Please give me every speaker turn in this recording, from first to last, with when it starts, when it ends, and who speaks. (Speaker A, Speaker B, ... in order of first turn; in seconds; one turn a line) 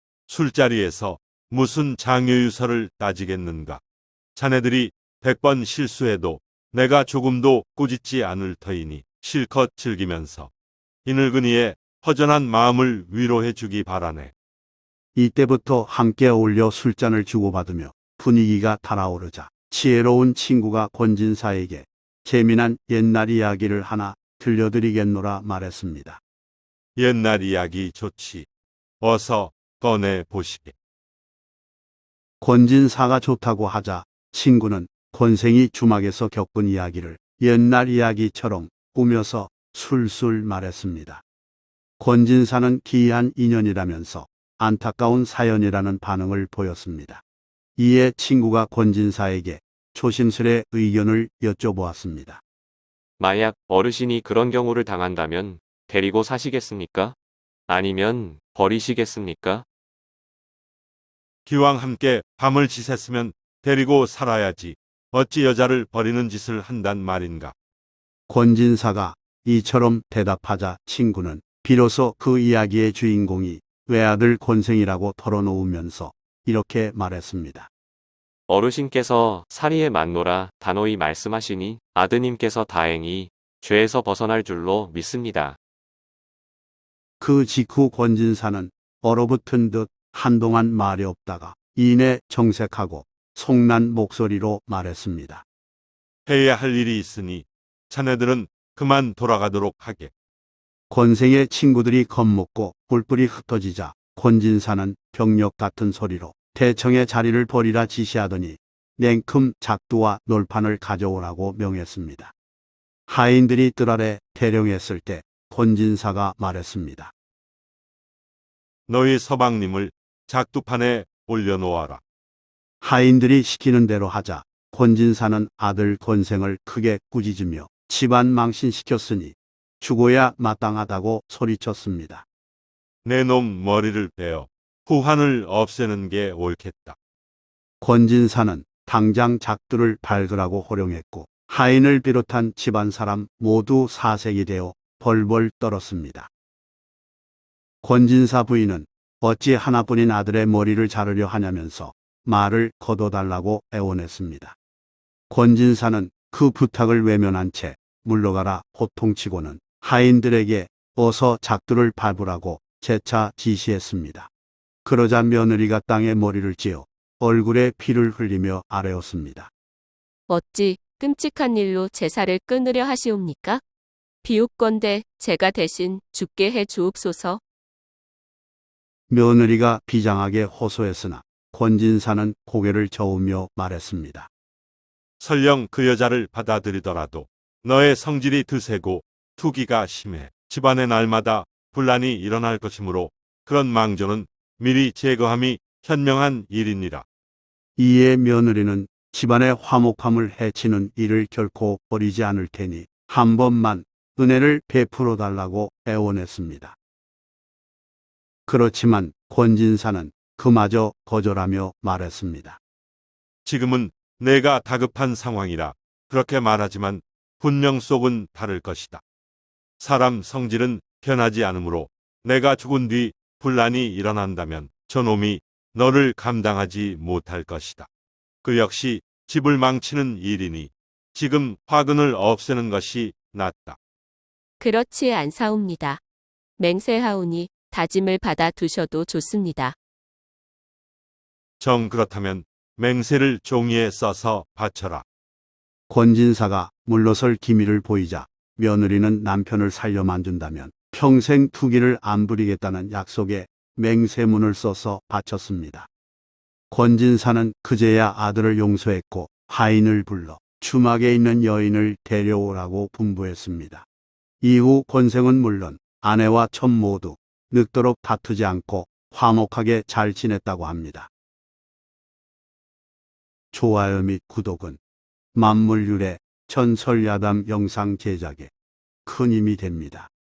Speaker A: 0.3-3.8
Speaker A: 4.4-10.5
Speaker A: 11.1-14.3
Speaker B: 15.2-26.2
Speaker A: 27.0-28.5
Speaker A: 29.0-30.7
Speaker B: 32.4-41.2
Speaker B: 42.0-47.2
Speaker B: 47.8-52.4
Speaker C: 53.2-57.2
Speaker C: 57.7-59.6
Speaker A: 61.5-67.5
Speaker B: 68.3-77.7
Speaker C: 78.5-85.6
Speaker B: 87.2-95.4
Speaker A: 96.3-100.1
Speaker B: 100.9-112.3
Speaker B: 113.1-117.1
Speaker A: 118.9-122.0
Speaker B: 122.8-132.2
Speaker A: 133.1-137.0
Speaker B: 137.8-146.3
Speaker B: 147.8-154.6
Speaker B: 155.3-164.3
Speaker B: 164.8-169.5
Speaker D: 170.3-173.6
Speaker D: 174.2-177.4
Speaker B: 179.1-184.3
Speaker A: 185.2-197.1
Speaker B: 197.8-206.8
Speaker B: 208.5-212.6
Speaker A: 213.4-219.0
Speaker A: 219.8-227.9
Speaker A: 228.4-233.8
Speaker D: 234.6-236.0
Speaker D: 236.6-239.8
Speaker A: 241.6-245.0
Speaker B: 245.9-255.9
Speaker B: 256.7-263.9
Speaker B: 264.4-271.1
Speaker B: 273.5-274.8
Speaker B: 275.4-278.5
Speaker B: 279.1-280.1